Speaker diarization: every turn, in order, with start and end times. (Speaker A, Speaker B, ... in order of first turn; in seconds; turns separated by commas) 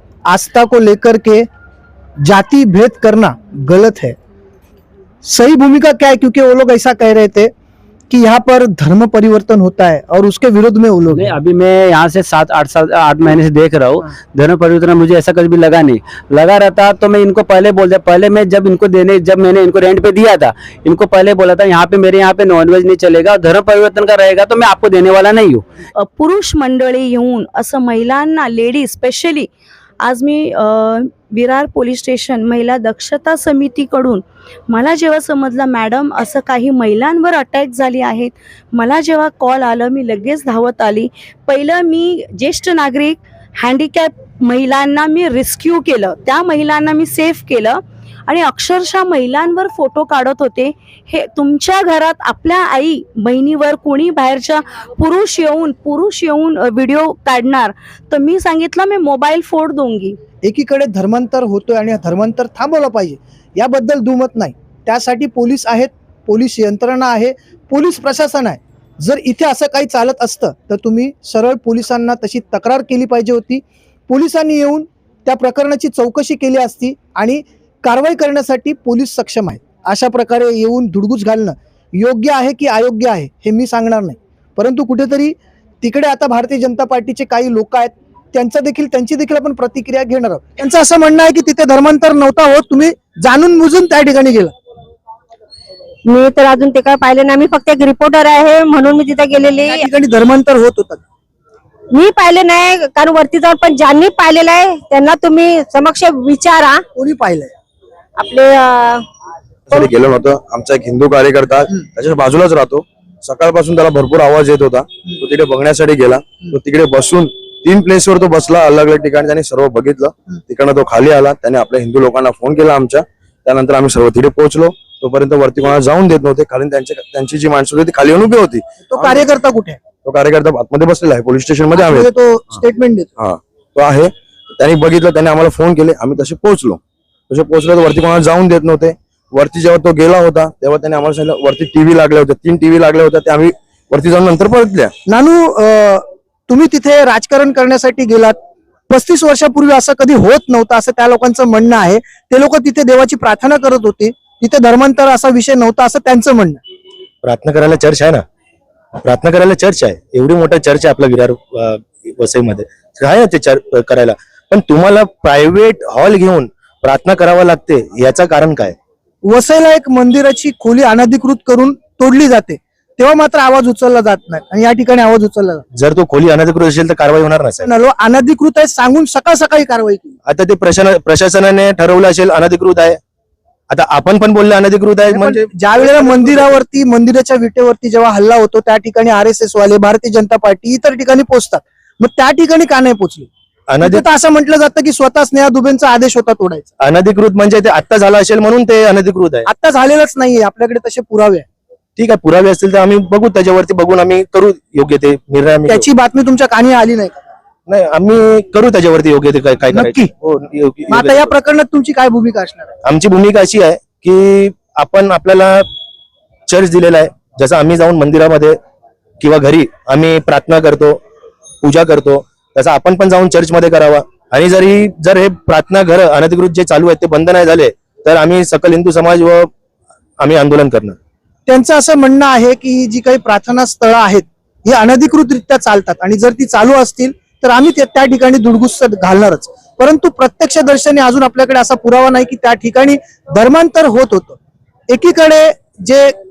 Speaker A: 0.3-1.5, Speaker A: 2.2-4.2, Speaker A: 5.2-7.5, Speaker A: 8.1-11.3, Speaker B: 11.1-25.6, Speaker C: 26.0-29.5, Speaker C: 30.0-60.2, Speaker A: 60.4-94.5, Speaker D: 96.1-99.9, Speaker A: 99.7-101.0, Speaker D: 101.9-106.8, Speaker A: 106.9-107.5, Speaker D: 108.2-109.0, Speaker E: 109.7-129.3, Speaker A: 128.9-129.8, Speaker E: 130.0-132.1, Speaker A: 131.8-133.1, Speaker E: 133.2-144.9, Speaker A: 145.1-148.4, Speaker A: 148.9-156.6, Speaker F: 157.2-158.2, Speaker F: 159.0-168.8, Speaker A: 169.3-175.7, Speaker F: 175.7-177.7, Speaker A: 177.6-180.2, Speaker F: 180.3-183.0, Speaker F: 183.7-186.6, Speaker A: 185.1-193.3, Speaker F: 193.7-194.1, Speaker A: 193.8-196.7, Speaker F: 196.8-199.5, Speaker A: 199.5-201.4, Speaker F: 202.0-205.8, Speaker A: 205.7-207.2, Speaker F: 207.7-211.3, Speaker A: 209.7-210.1, Speaker A: 210.9-212.7, Speaker F: 212.8-215.6, Speaker F: 216.5-218.6, Speaker F: 219.2-221.0, Speaker F: 221.6-229.5, Speaker F: 230.2-231.0, Speaker A: 231.5-244.4, Speaker A: 244.9-246.1